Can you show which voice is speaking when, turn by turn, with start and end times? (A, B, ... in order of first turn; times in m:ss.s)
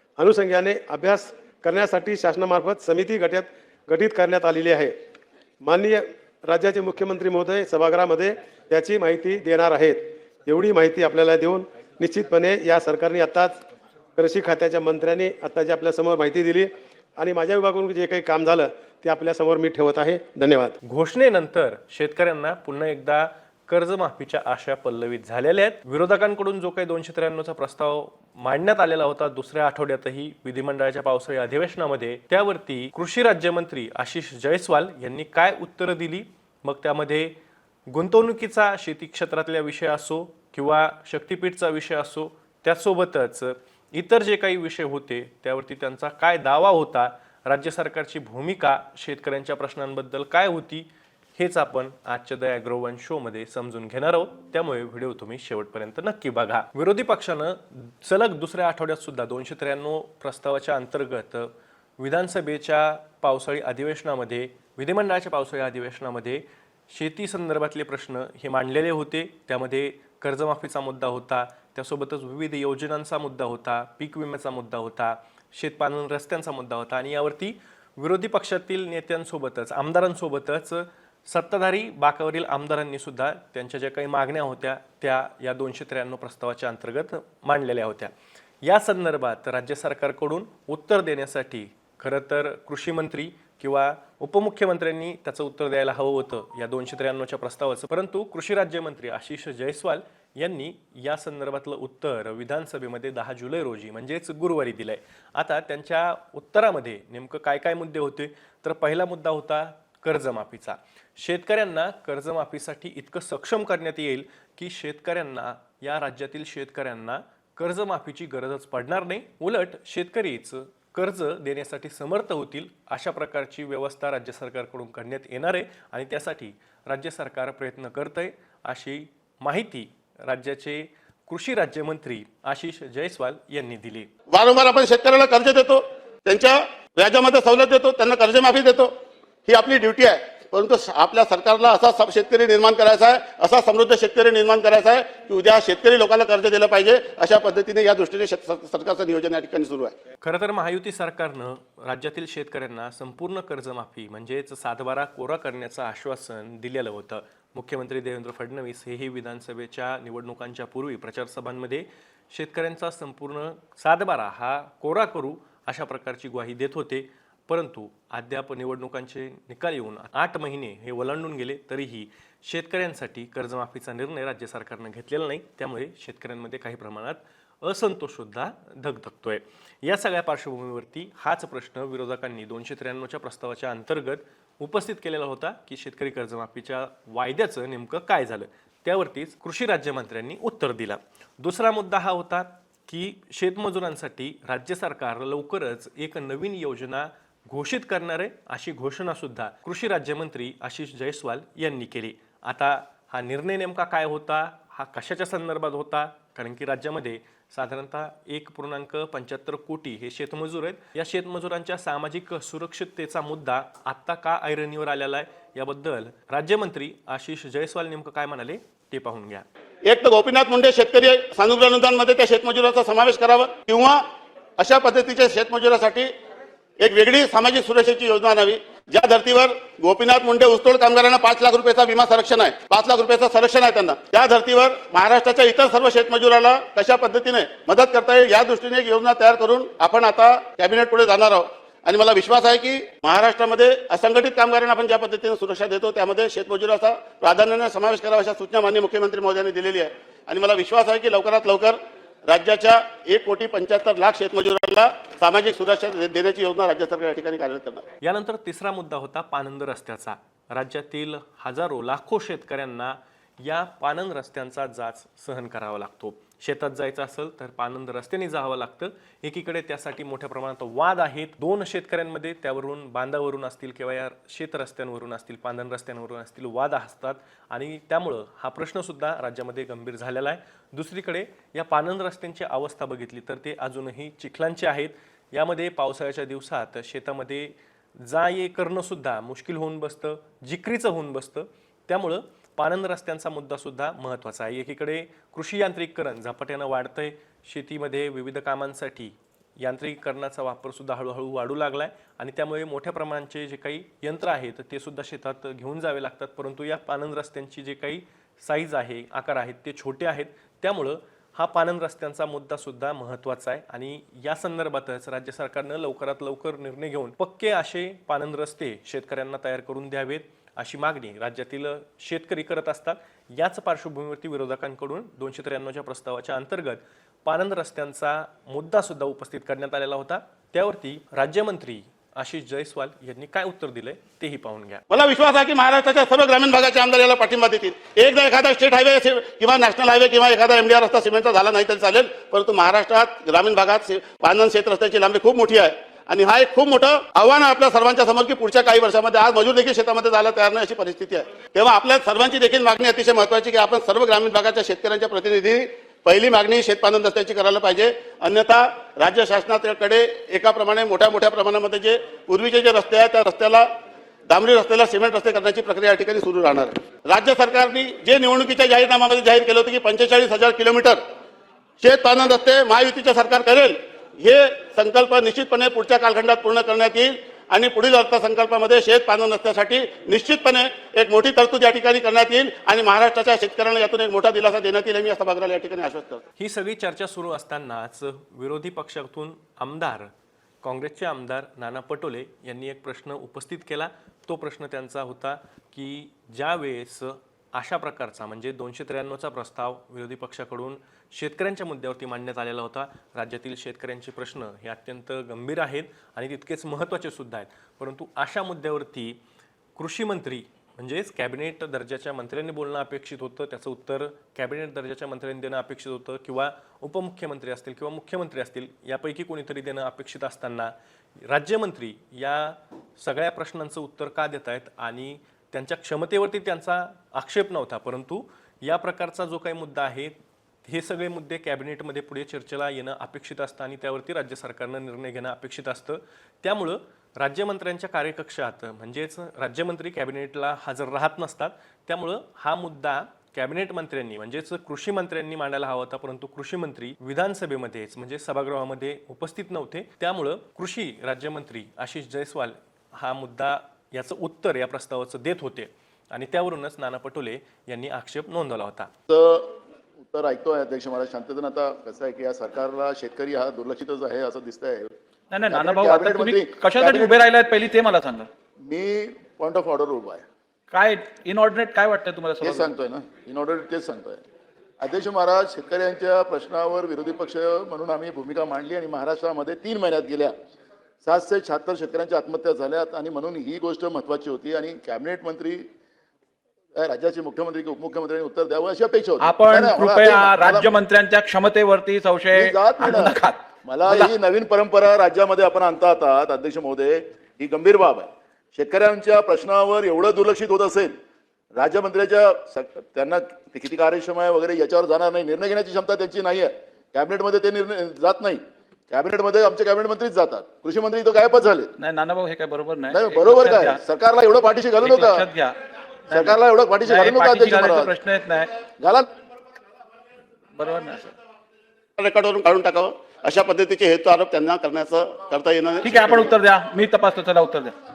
0:00.2-0:04.9 A
0:05.6-0:13.6 A
0:14.2-0:20.8 A
0:20.8-0:37.3 B
0:37.9-1:28.1 B
1:28.6-2:14.1 B
2:14.3-2:18.9 C
2:19.5-2:29.9 C
2:30.2-3:39.4 B
3:39.8-3:44.0 C
3:44.6-3:46.1 C
3:46.8-4:17.8 C
4:18.0-5:34.8 B
5:34.9-6:03.6 C
6:04.3-6:11.0 C
6:11.8-6:26.2 C
6:26.4-6:30.1 B
6:30.6-6:49.2 B
6:49.8-7:00.7 B
7:01.2-7:38.9 B
7:39.1-7:44.9 D
7:45.3-7:48.3 E
7:45.5-7:47.2 D
7:48.6-7:50.2 D
7:50.7-7:52.7 E
7:52.4-7:54.2 D
7:54.8-8:00.3 D
8:01.0-8:05.7 D
8:06.8-8:10.7 D
8:09.2-8:14.1 E
8:12.3-8:21.0 D
8:21.5-8:31.7 D
8:31.8-8:33.8 E
8:32.9-8:35.2 D
8:34.8-8:35.6 E
8:36.1-8:38.5 E
8:36.1-8:37.9 D
8:38.7-8:39.1 D
8:40.5-8:41.1 E
8:42.0-8:46.3 C
8:45.8-8:47.7 E